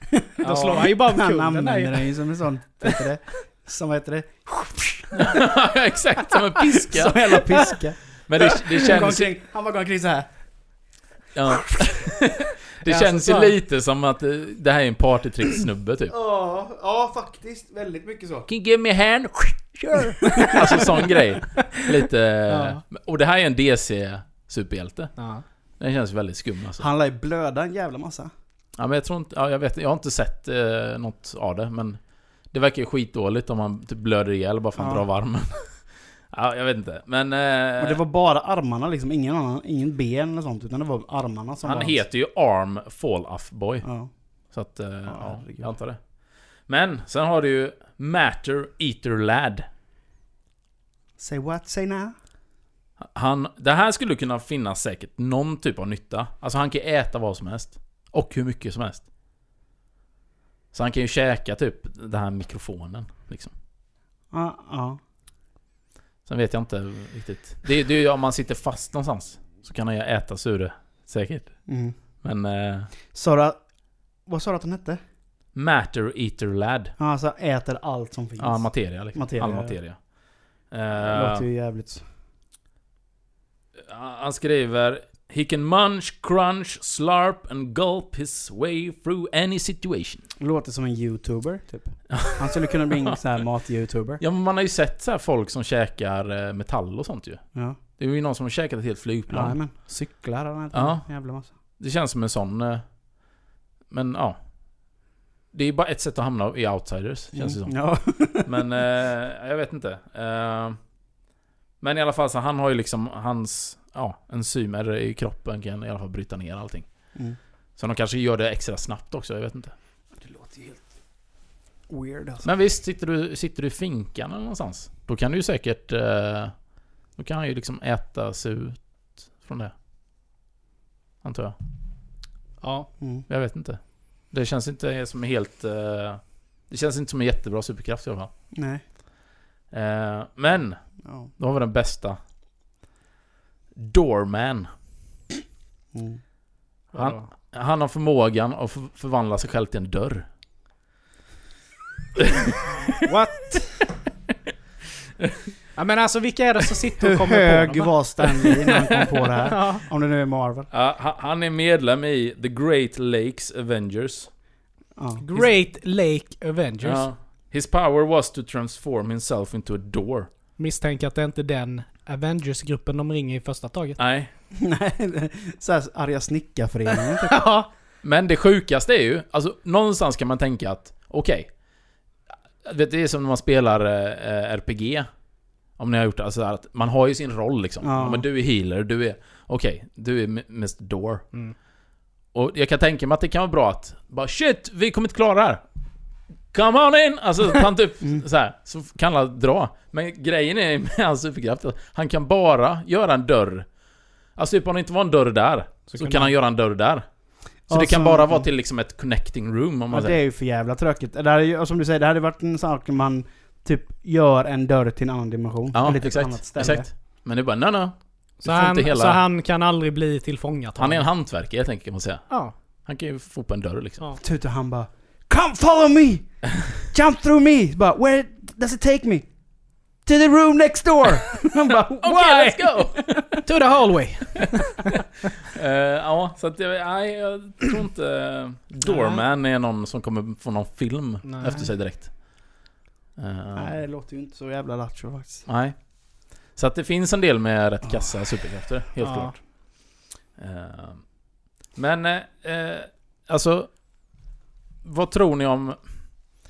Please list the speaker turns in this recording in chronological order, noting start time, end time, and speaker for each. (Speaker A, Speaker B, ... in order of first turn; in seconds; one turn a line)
Speaker A: 0.4-2.1
Speaker B: 0.4-0.9
Speaker C: 0.7-5.1
Speaker A: 2.8-3.1
Speaker B: 5.1-7.7
Speaker C: 6.9-10.3
Speaker B: 8.3-9.3
Speaker B: 11.3-16.1
Speaker A: 12.8-13.6
Speaker C: 16.1-18.5
Speaker B: 18.5-25.1
Speaker C: 20.2-20.8
Speaker A: 22.5-22.8
Speaker A: 25.2-25.4
Speaker B: 25.8-26.9
Speaker C: 26.8-28.3
Speaker B: 28.8-38.0
Speaker C: 34.8-35.0
Speaker C: 37.8-42.0
Speaker B: 41.6-43.9
Speaker C: 43.8-44.1
Speaker B: 44.5-46.0
Speaker C: 45.1-45.7
Speaker B: 46.7-49.7
Speaker C: 51.2-52.1
Speaker B: 53.0-59.1
Speaker B: 60.7-63.5
Speaker C: 64.3-65.0
Speaker B: 66.3-71.7
Speaker C: 71.7-72.0
Speaker B: 72.2-72.9
Speaker C: 73.1-73.6
Speaker C: 74.3-75.0
Speaker B: 75.5-77.0
Speaker C: 77.0-79.8
Speaker B: 78.4-80.1
Speaker B: 80.7-81.5
Speaker C: 81.0-82.0
Speaker B: 83.9-90.2
Speaker C: 90.4-94.2
Speaker B: 92.1-93.2
Speaker B: 94.2-99.6
Speaker C: 99.3-101.5
Speaker B: 100.7-101.1
Speaker B: 101.8-102.8
Speaker B: 103.9-104.4
Speaker B: 105.5-107.8
Speaker C: 107.3-108.5
Speaker B: 108.3-110.8
Speaker B: 111.8-116.9
Speaker B: 117.8-119.7
Speaker C: 120.2-120.8
Speaker C: 121.9-122.5
Speaker B: 122.4-126.6
Speaker B: 127.2-129.7
Speaker B: 131.2-131.6
Speaker A: 132.6-132.9
Speaker C: 133.0-133.3
Speaker B: 133.3-138.3
Speaker C: 138.5-138.8
Speaker B: 139.7-140.8
Speaker C: 141.0-141.3
Speaker B: 141.3-142.2
Speaker B: 143.8-144.7
Speaker C: 145.9-146.2
Speaker A: 146.9-147.3
Speaker B: 146.9-150.3
Speaker A: 153.0-153.9
Speaker A: 155.8-159.8
Speaker C: 157.0-160.7
Speaker B: 160.7-164.3
Speaker C: 165.0-165.2
Speaker A: 165.2-167.1
Speaker B: 166.8-170.3
Speaker A: 170.6-174.0
Speaker B: 174.0-174.3
Speaker C: 174.5-177.4
Speaker A: 177.2-177.7
Speaker B: 178.0-181.5
Speaker B: 182.6-185.1
Speaker B: 185.8-191.3
Speaker C: 187.8-188.2
Speaker B: 192.3-195.6
Speaker B: 196.5-203.7
Speaker B: 204.4-207.1
Speaker A: 205.9-206.3
Speaker B: 207.7-210.2
Speaker C: 207.7-208.5
Speaker C: 209.9-216.9
Speaker B: 215.7-219.2
Speaker A: 218.4-221.1
Speaker B: 220.8-222.3
Speaker A: 222.3-222.5
Speaker B: 222.8-224.0
Speaker C: 224.2-229.3
Speaker C: 230.1-233.3
Speaker B: 232.0-233.4
Speaker A: 233.4-235.0
Speaker B: 235.5-242.2
Speaker A: 238.8-239.2
Speaker A: 241.2-241.7
Speaker B: 243.2-243.8
Speaker C: 243.6-245.5
Speaker B: 245.5-245.8
Speaker B: 246.5-249.5
Speaker C: 247.9-248.1
Speaker A: 249.0-249.4
Speaker B: 250.4-251.1
Speaker B: 251.7-253.7
Speaker B: 254.8-255.8